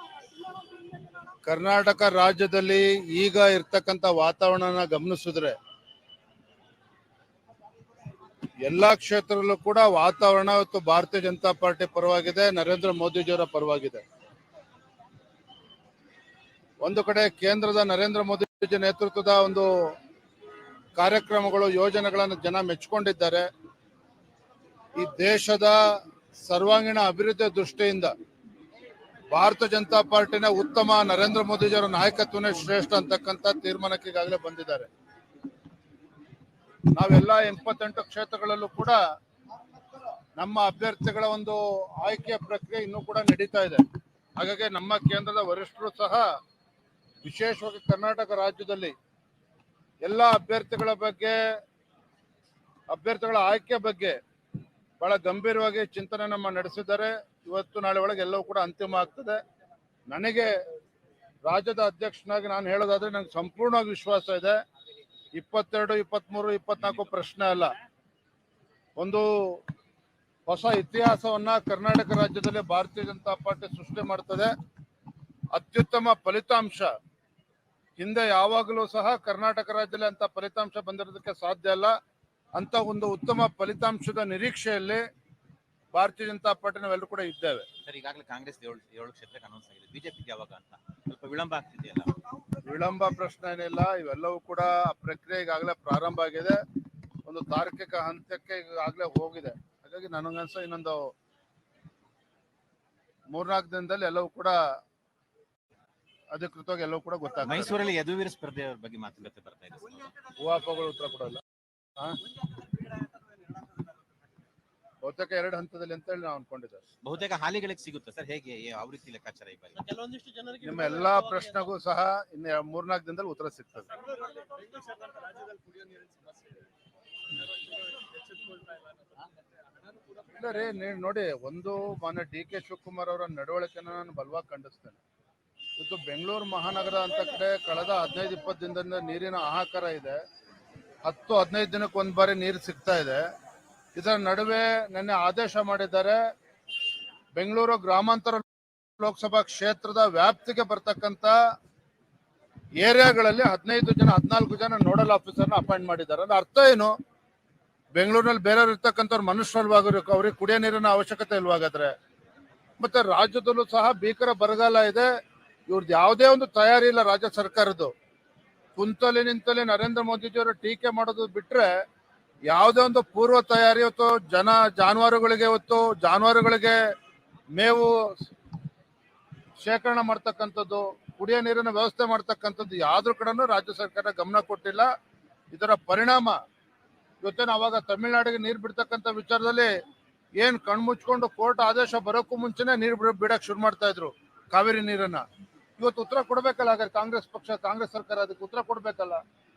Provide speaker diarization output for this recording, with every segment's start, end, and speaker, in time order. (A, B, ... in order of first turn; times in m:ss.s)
0:01.4-0:05.6 A
0:08.6-0:14.0 A
0:16.8-0:19.7 A
0:21.0-0:23.5 A
0:24.9-0:25.8 A
0:26.4-0:28.1 A
0:29.3-0:34.9 A
0:36.9-0:39.0 A
0:40.4-0:43.8 A
0:44.4-0:46.2 A
0:47.2-0:48.9 A
0:50.0-0:51.4 A
0:52.9-0:54.2 A
0:55.0-0:59.4 A
1:00.1-1:00.5 A
1:01.4-1:04.6 A
1:05.3-1:07.7 A
1:09.0-1:09.6 A
1:10.4-1:14.5 A
1:15.5-1:16.9 A
1:18.0-1:21.9 A
1:22.5-1:25.0 A
1:25.9-1:27.6 A
1:27.8-1:32.1 B
1:32.6-1:36.6 A
1:37.2-1:41.1 A
1:43.3-1:44.6 A
1:46.3-1:47.8 A
1:47.4-1:50.1 B
1:50.4-1:51.4 A
1:55.0-1:56.8 A
1:57.0-1:59.9 B
1:59.8-2:01.5 C
2:00.6-2:03.9 A
2:04.0-2:06.6 C
2:07.6-2:09.2 C
2:10.3-2:15.0 A
2:15.8-2:20.2 A
2:21.0-2:23.2 A
2:23.9-2:26.2 A
2:27.3-2:28.4 A
2:29.0-2:31.3 A
2:32.8-2:36.9 A
2:38.0-2:41.9 A
2:42.8-2:45.1 A
2:45.7-2:47.9 A
2:48.8-2:51.7 A
2:52.5-2:56.8 A
2:57.5-2:58.3 A
2:59.6-3:04.9 A
3:05.5-3:06.4 A
3:07.2-3:09.7 A
3:10.4-3:15.2 A
3:15.8-3:19.2 A